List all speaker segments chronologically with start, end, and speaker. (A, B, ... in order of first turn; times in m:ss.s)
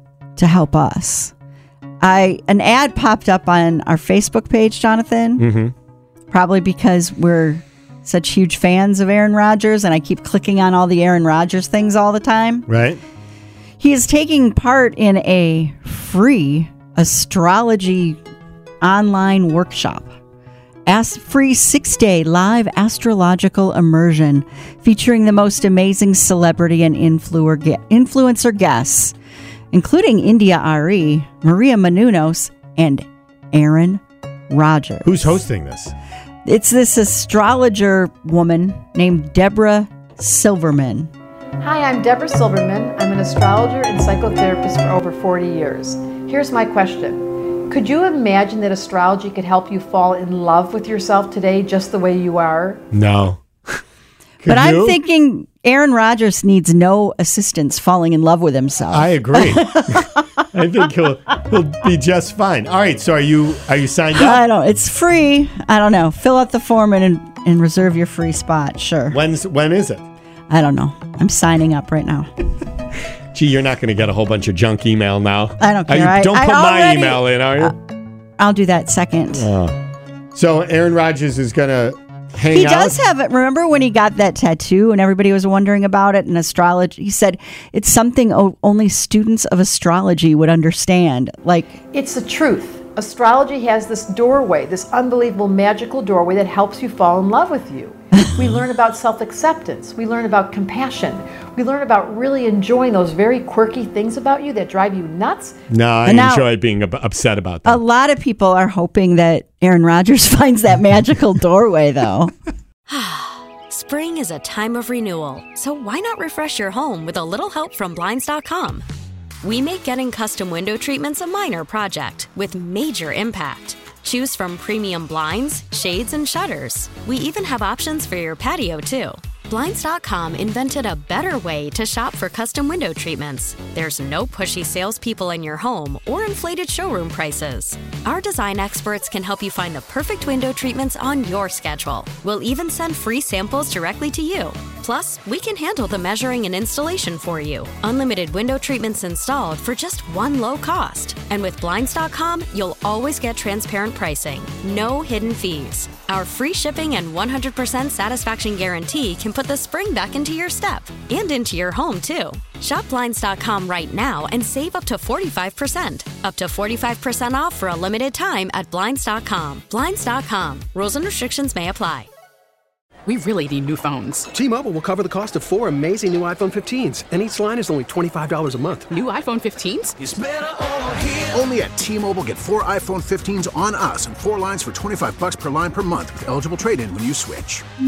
0:00.4-0:01.3 A
0:02.0-0:05.5 A
0:05.4-0:05.7 B
0:06.3-0:12.7 A
0:12.7-0:13.0 B
0:13.8-0:18.2 A
0:18.8-0:20.1 A
0:20.9-0:29.2 A
0:29.7-0:35.4 A
0:35.0-0:35.9 B
0:36.4-0:41.1 A
0:41.6-0:52.8 C
0:52.9-0:53.8 B
0:54.4-0:55.0 B
0:54.4-1:00.2 A
0:58.9-1:04.4 B
1:04.1-1:09.2 A
1:09.1-1:10.0 B
1:10.5-1:12.3 A
1:13.3-1:17.8 B
1:15.6-1:17.8 A
1:18.4-1:19.5 A
1:19.3-1:19.8 B
1:20.3-1:23.0 B
1:22.5-1:31.8 A
1:31.9-1:45.6 C
1:45.7-1:47.8 B
1:46.1-1:46.5 A
1:47.7-1:52.3 A
1:52.9-1:58.8 D
1:59.4-2:52.1 D
2:53.1-2:54.3 E
2:54.4-2:58.8 F
2:58.9-3:00.0 E
3:00.0-3:07.6 G